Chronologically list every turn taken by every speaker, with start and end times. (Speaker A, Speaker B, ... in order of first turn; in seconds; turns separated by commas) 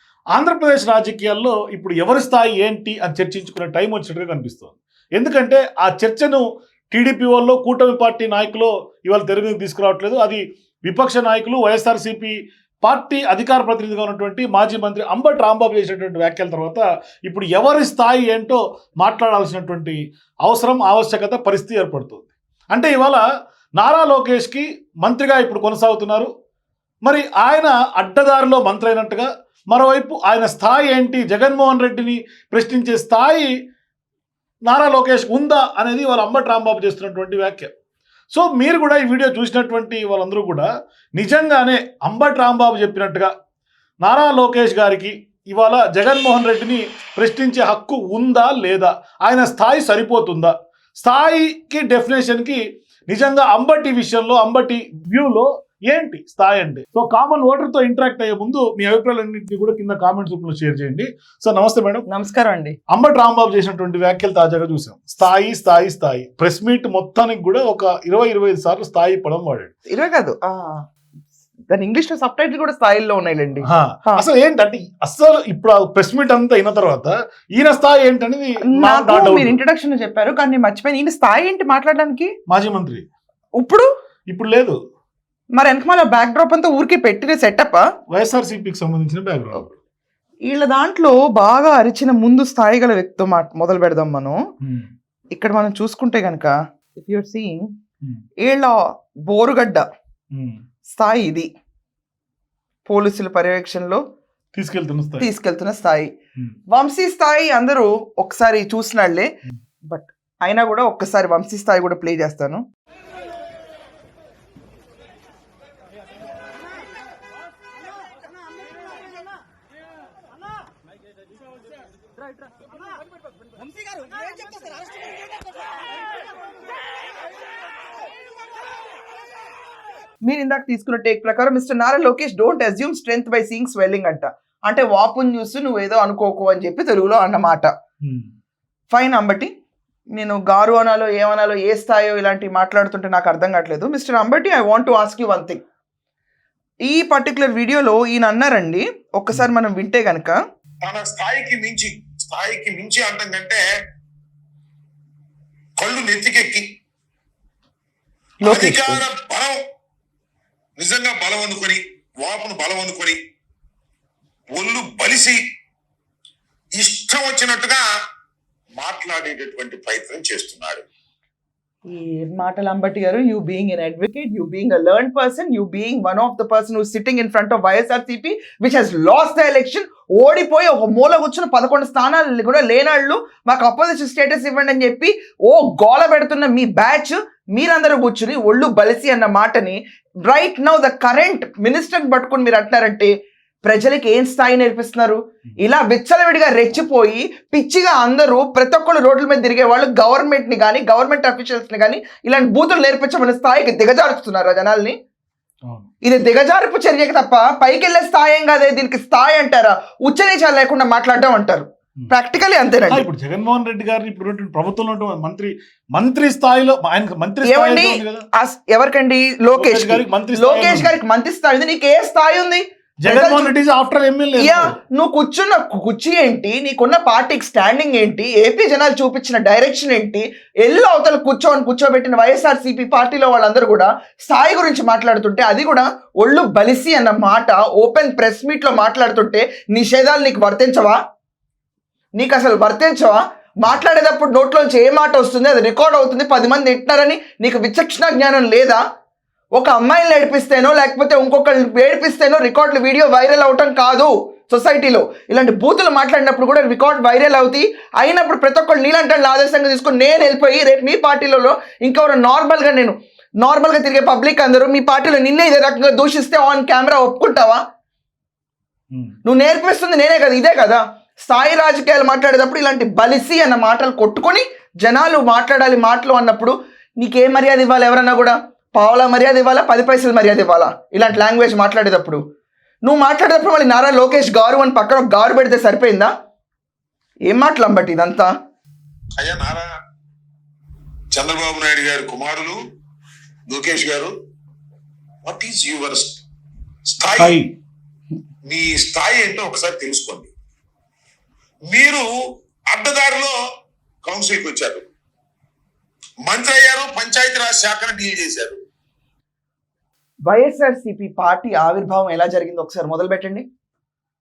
Speaker A: 0.3-23.2, Speaker A: 23.8-26.3, Speaker A: 27.0-33.5, Speaker A: 34.6-37.7, Speaker A: 38.3-43.3, Speaker A: 44.0-62.0, Speaker B: 62.1-62.8, Speaker A: 62.9-69.7, Speaker B: 69.9-70.8, Speaker B: 71.7-74.2, Speaker A: 73.6-79.6, Speaker B: 78.7-82.3, Speaker A: 82.5-83.0, Speaker B: 83.6-83.9, Speaker A: 84.3-84.8, Speaker B: 85.5-87.8, Speaker A: 88.1-89.7, Speaker B: 90.5-94.4, Speaker A: 94.6-94.9, Speaker B: 95.3-97.7, Speaker B: 98.4-99.9, Speaker A: 100.3-100.6, Speaker B: 100.9-101.5, Speaker B: 102.8-104.0, Speaker A: 104.5-105.3, Speaker B: 105.2-106.1, Speaker B: 106.7-109.3, Speaker B: 109.8-112.6, Speaker B: 130.2-137.7, Speaker B: 138.9-139.5, Speaker B: 140.1-145.6, Speaker B: 146.8-150.4, Speaker C: 150.8-153.6, Speaker C: 155.8-156.7, Speaker B: 158.4-159.0, Speaker C: 158.4-159.6, Speaker C: 160.8-163.2, Speaker C: 164.5-165.4, Speaker C: 166.8-167.8, Speaker C: 168.7-170.8, Speaker B: 171.9-193.1, Speaker B: 193.6-204.9, Speaker B: 206.0-213.0, Speaker A: 212.9-218.2, Speaker B: 217.4-223.5, Speaker A: 219.6-220.9, Speaker A: 223.0-224.7, Speaker B: 224.4-241.0, Speaker B: 242.2-248.8, Speaker B: 249.6-267.6, Speaker B: 269.2-282.2, Speaker B: 282.8-286.1, Speaker B: 287.3-288.3, Speaker C: 289.2-289.7, Speaker C: 291.1-292.6, Speaker C: 293.5-294.1, Speaker C: 295.2-296.2, Speaker C: 296.9-297.4, Speaker A: 297.2-297.5, Speaker C: 298.4-300.3, Speaker C: 301.7-302.1, Speaker C: 302.7-303.4, Speaker C: 304.0-304.8, Speaker C: 306.2-308.6, Speaker B: 310.2-313.4